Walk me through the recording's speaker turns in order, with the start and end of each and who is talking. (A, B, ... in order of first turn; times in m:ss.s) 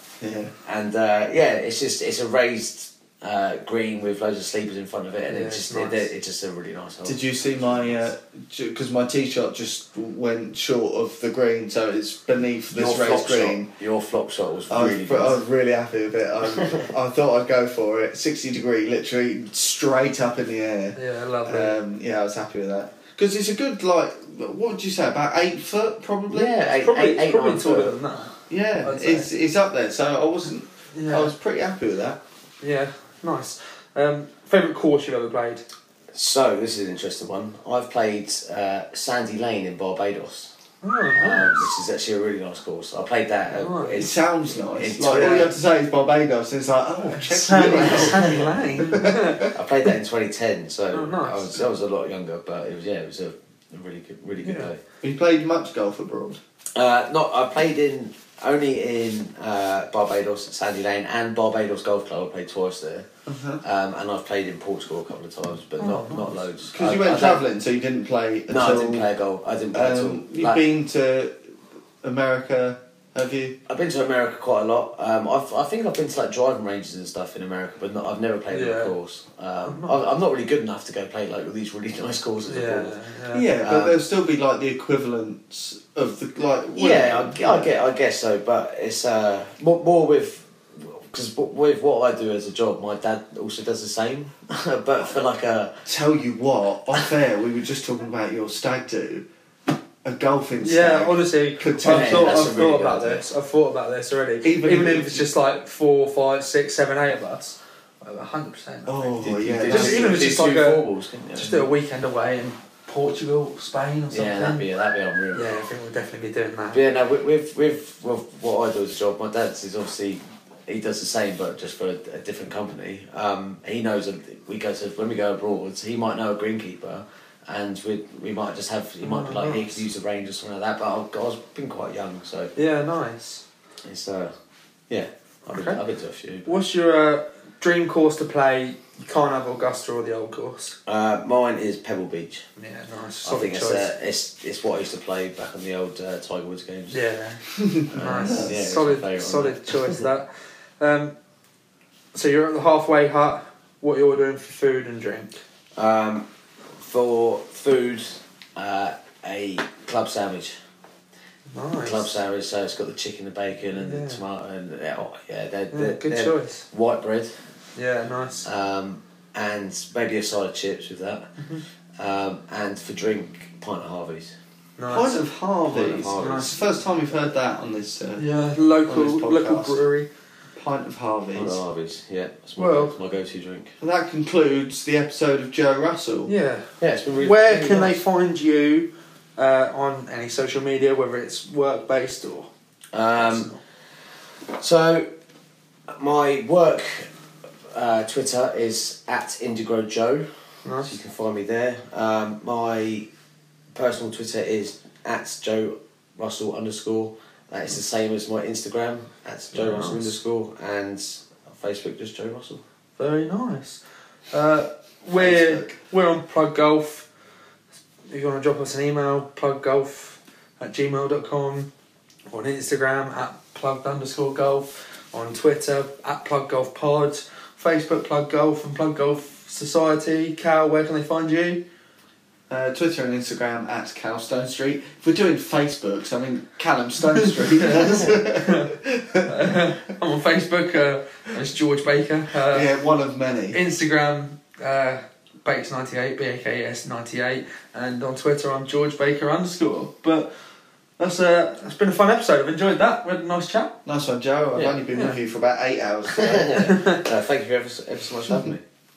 0:00.2-0:00.5 A
0:00.6-0:08.1 B
0:05.3-0:06.0 C
0:07.0-0:13.7 A
0:12.7-0:15.4 B
0:14.7-0:26.6 A
0:21.0-0:21.8 C
0:26.3-0:28.0 B
0:26.6-0:29.3 C
0:28.5-0:32.2 A
0:30.9-0:31.3 C
0:32.6-0:35.6 C
0:36.1-0:40.5 B
0:40.8-0:41.6 C
0:41.1-0:45.5 B
0:43.5-0:44.1 C
0:44.0-0:49.2 A
0:45.1-0:45.5 C
0:47.1-0:49.6 C
0:48.0-0:48.3 B
0:49.4-0:54.8 B
0:50.9-0:51.6 C
0:54.4-0:54.7 C
0:55.0-0:56.4 A
0:56.8-1:03.1 B
1:03.3-1:03.6 A
1:03.6-1:07.4 B
1:05.8-1:06.4 C
1:06.7-1:09.1 A
1:08.5-1:10.6 B
1:09.7-1:11.4 A
1:12.0-1:13.6 A
1:13.7-1:22.9 B
1:18.5-1:18.9 C
1:19.6-1:20.0 C
1:22.5-1:23.5 C
1:23.3-1:27.8 A
1:23.6-1:24.0 B
1:26.8-1:35.8 B
1:35.8-1:39.2 A
1:40.0-1:42.6 A
1:40.6-1:54.7 C
1:41.8-1:43.2 B
1:44.4-1:45.3 A
1:48.9-1:50.2 A
1:49.2-1:51.7 B
1:54.1-1:55.5 B
1:55.3-1:56.8 C
1:56.7-2:12.5 B
2:09.0-2:09.8 C
2:12.6-2:13.4 C
2:13.8-2:14.3 B
2:14.9-2:16.5 B
2:15.5-2:15.8 C
2:16.5-2:20.8 C
2:20.9-2:22.4 B
2:22.6-2:23.9 C
2:23.2-2:27.0 B
2:26.9-2:30.3 C
2:27.9-2:30.1 B
2:30.8-2:31.1 C
2:32.1-2:35.3 C
2:35.8-2:40.6 B
2:41.5-2:42.1 C
2:41.8-2:47.3 B
2:43.8-2:44.2 C
2:45.7-2:46.6 C
2:47.8-2:48.5 C
2:48.4-2:51.3 B
2:52.0-2:54.4 B
2:54.8-2:56.7 C
2:54.9-2:58.2 A
2:55.7-2:56.6 B
2:58.2-3:00.1 C
2:58.8-2:59.8 A
3:00.6-3:01.6 A
3:01.3-3:03.7 B
3:02.6-3:02.9 C
3:03.8-3:06.3 A
3:06.3-3:12.5 C
3:06.8-3:08.0 B
3:12.9-3:13.5 B
3:13.2-3:13.6 C
3:14.5-3:15.1 B
3:15.9-3:17.1 B
3:17.7-3:20.3 B
3:20.6-3:20.9 C
3:20.8-3:23.1 B
3:23.7-3:32.6 B
3:29.5-3:30.2 C
3:33.0-3:37.0 C
3:35.2-3:35.8 A
3:38.1-3:41.7 C
3:42.3-3:51.6 C
3:52.5-3:59.6 A
3:57.3-3:58.7 C
3:59.3-4:02.7 C
4:02.5-4:03.6 A
4:03.5-4:10.3 C
4:11.0-4:13.8 C
4:13.9-4:16.6 A
4:14.6-4:14.8 B
4:14.9-4:15.2 C
4:16.1-4:18.6 B
4:16.6-4:17.0 C